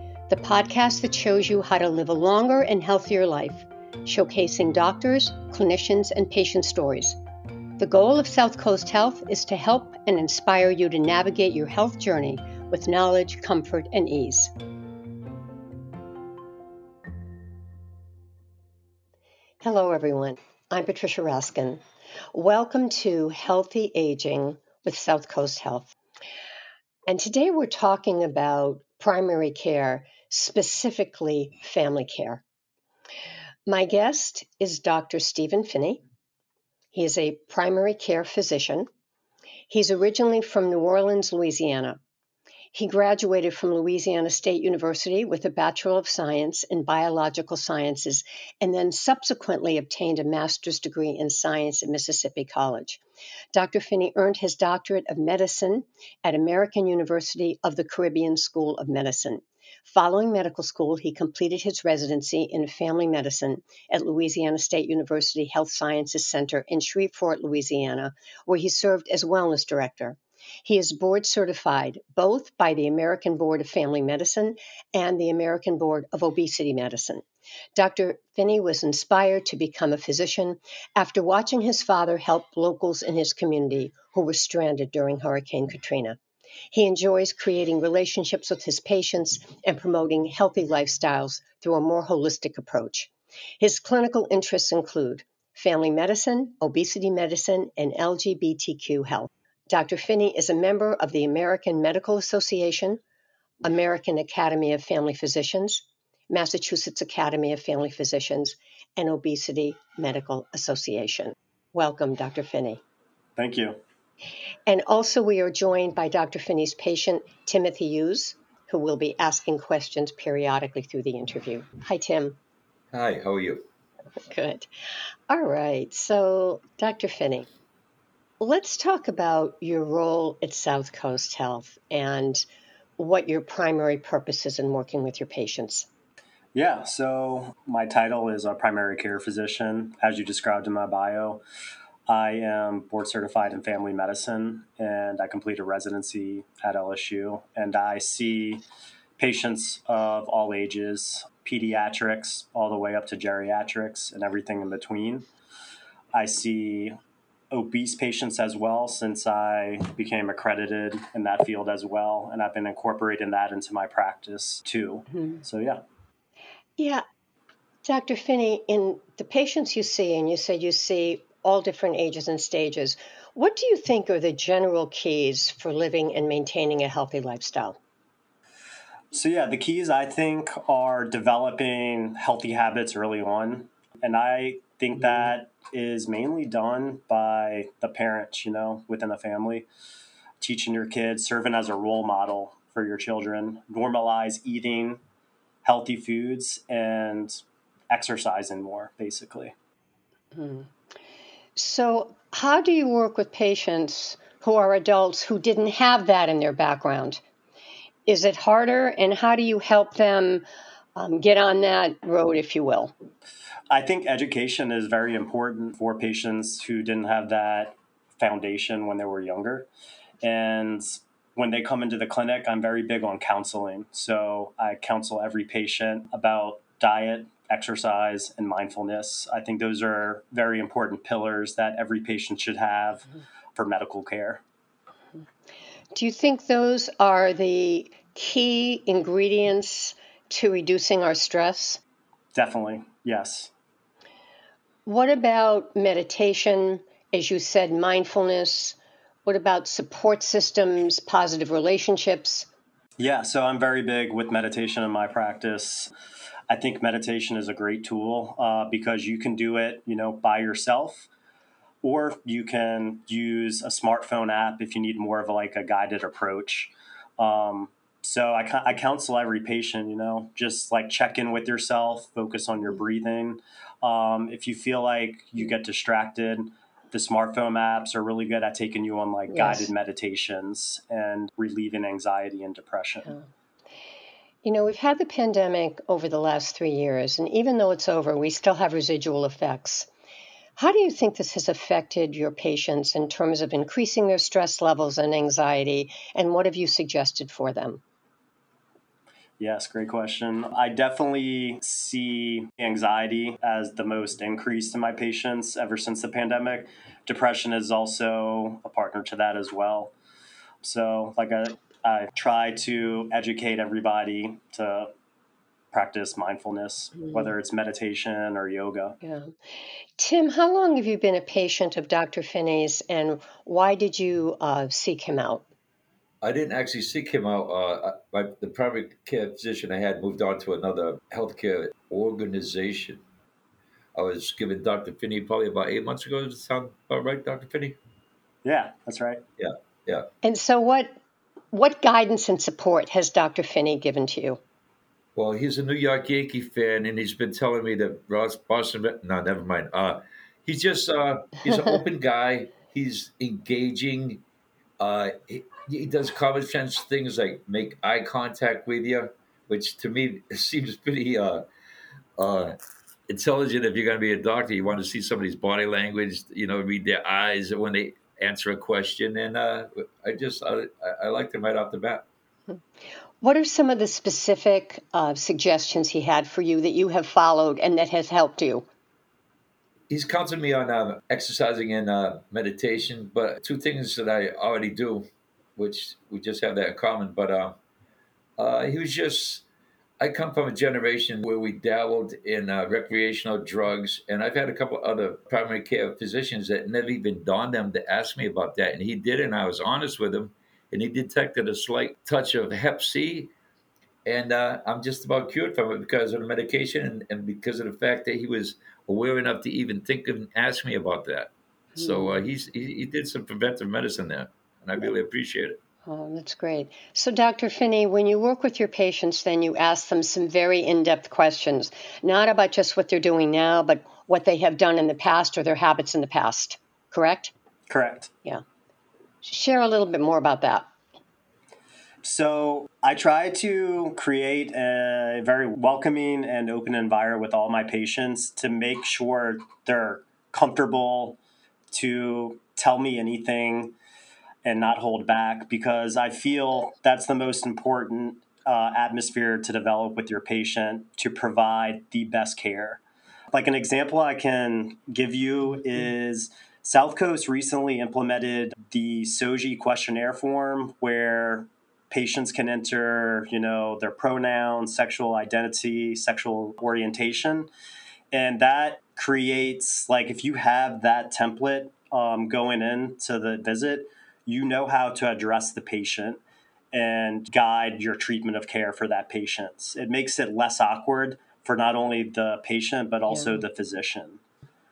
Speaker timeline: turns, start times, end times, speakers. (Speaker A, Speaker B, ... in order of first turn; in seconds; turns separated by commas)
Speaker A: 0.3-7.2, Speaker A: 7.8-14.5, Speaker A: 19.6-25.9, Speaker A: 27.1-32.4, Speaker A: 33.7-36.0, Speaker A: 36.9-38.9, Speaker A: 39.7-42.0, Speaker A: 42.7-53.0, Speaker A: 53.5-77.2, Speaker A: 77.8-86.2, Speaker A: 86.7-103.0, Speaker A: 103.6-112.8, Speaker B: 113.4-113.8, Speaker A: 114.7-122.4, Speaker C: 122.9-123.6, Speaker A: 124.2-124.7, Speaker A: 125.3-127.5, Speaker A: 128.4-132.4, Speaker A: 133.0-135.9, Speaker B: 136.5-141.4, Speaker B: 142.1-148.6, Speaker B: 149.2-155.3, Speaker B: 156.1-157.0, Speaker B: 157.5-165.8, Speaker A: 165.1-165.4, Speaker A: 166.8-167.0, Speaker A: 167.8-177.8, Speaker B: 179.1-189.7, Speaker B: 190.4-195.0, Speaker B: 195.6-199.5, Speaker A: 200.3-200.7, Speaker A: 201.6-207.2, Speaker A: 208.1-212.9, Speaker B: 213.7-219.7, Speaker B: 220.2-234.4, Speaker A: 235.9-241.8, Speaker B: 242.3-243.5, Speaker A: 244.8-252.5, Speaker B: 253.0-255.9, Speaker B: 256.5-261.1, Speaker B: 261.8-283.1, Speaker A: 279.3-279.7, Speaker A: 284.4-289.9, Speaker A: 290.6-297.8, Speaker B: 299.4-309.9, Speaker B: 310.6-314.9, Speaker B: 315.7-319.0, Speaker A: 319.0-319.3, Speaker A: 320.0-325.4, Speaker C: 326.2-333.0, Speaker C: 333.9-337.8, Speaker B: 338.4-339.2, Speaker C: 339.4-340.1, Speaker A: 340.2-341.0, Speaker A: 341.5-344.4, Speaker C: 345.1-354.2, Speaker C: 354.8-361.4, Speaker C: 362.2-362.6, Speaker C: 363.1-372.0, Speaker A: 373.2-378.6, Speaker C: 379.9-387.6, Speaker C: 388.4-389.4, Speaker C: 390.0-403.3, Speaker C: 404.0-415.6, Speaker A: 411.8-412.2, Speaker A: 415.9-427.3, Speaker B: 427.7-428.1, Speaker A: 429.2-430.7, Speaker B: 432.0-441.2, Speaker B: 441.7-443.7, Speaker B: 444.4-452.8, Speaker B: 453.3-467.5, Speaker B: 468.1-476.2, Speaker B: 476.7-484.2, Speaker A: 483.1-483.4